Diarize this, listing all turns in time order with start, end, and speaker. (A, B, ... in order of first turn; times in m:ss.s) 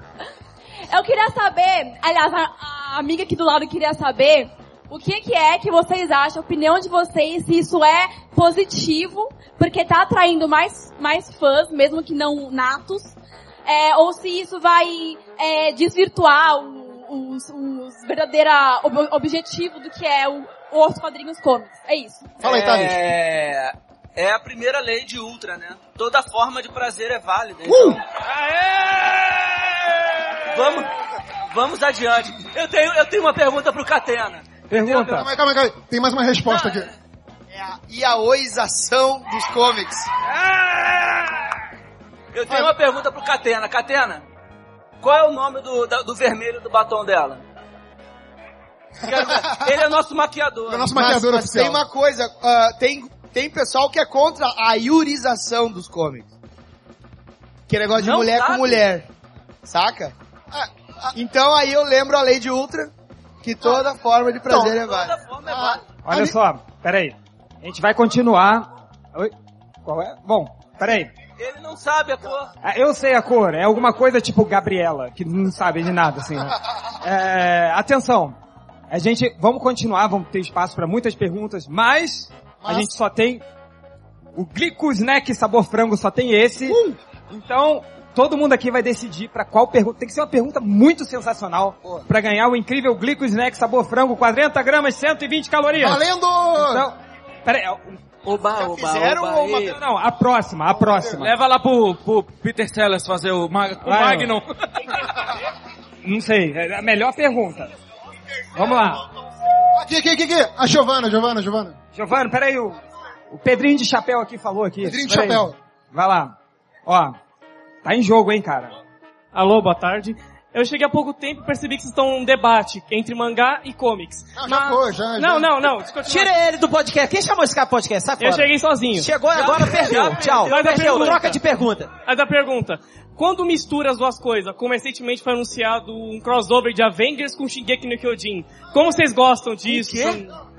0:00.9-0:13.1 A
0:13.6-0:22.4 A
0:22.4-0:23.0 B
0:22.4-0:29.1 C
0:27.6-0:28.0 B
0:30.5-0:30.9 C
0:31.5-0:34.5 C
0:34.7-0:35.3 D
0:34.9-0:36.9 B
0:36.5-0:36.9 C
0:37.5-0:40.1 E
0:40.4-0:40.8 C
0:42.3-0:44.2 C
0:45.0-0:47.4 C
0:49.0-0:51.0 C
0:50.7-0:51.8 B
0:51.0-0:56.3 E
0:57.7-0:59.1 E
0:58.0-0:58.8 C
0:59.6-1:02.9 E
1:03.4-1:05.1 E
1:04.5-1:04.8 B
1:04.8-1:05.8 C
1:05.4-1:06.3 B
1:06.0-1:09.3 D
1:09.8-1:11.1 D
1:11.4-1:12.5 C
1:12.6-1:18.4 D
1:18.9-1:23.4 D
1:22.6-1:22.9 B
1:24.3-1:26.8 D
1:26.7-1:27.0 B
1:27.3-1:36.0 D
1:35.8-1:36.9 B
1:36.5-1:38.0 D
1:38.2-1:39.8 C
1:38.5-1:39.8 E
1:39.7-1:41.3 D
1:40.8-1:41.1 B
1:41.2-1:44.4 F
1:43.8-1:44.4 D
1:46.0-1:47.7 D
1:48.5-1:49.0 D
1:49.7-1:51.8 B
1:51.9-1:52.8 D
1:53.3-1:56.3 D
1:54.8-1:55.6 B
1:56.8-1:57.2 D
1:57.8-1:58.7 D
1:59.3-2:06.3 G
2:04.4-2:05.7 B
2:06.0-2:11.9 H
2:08.2-2:09.1 G
2:09.3-2:11.2 C
2:10.5-2:11.4 G
2:12.0-2:20.3 G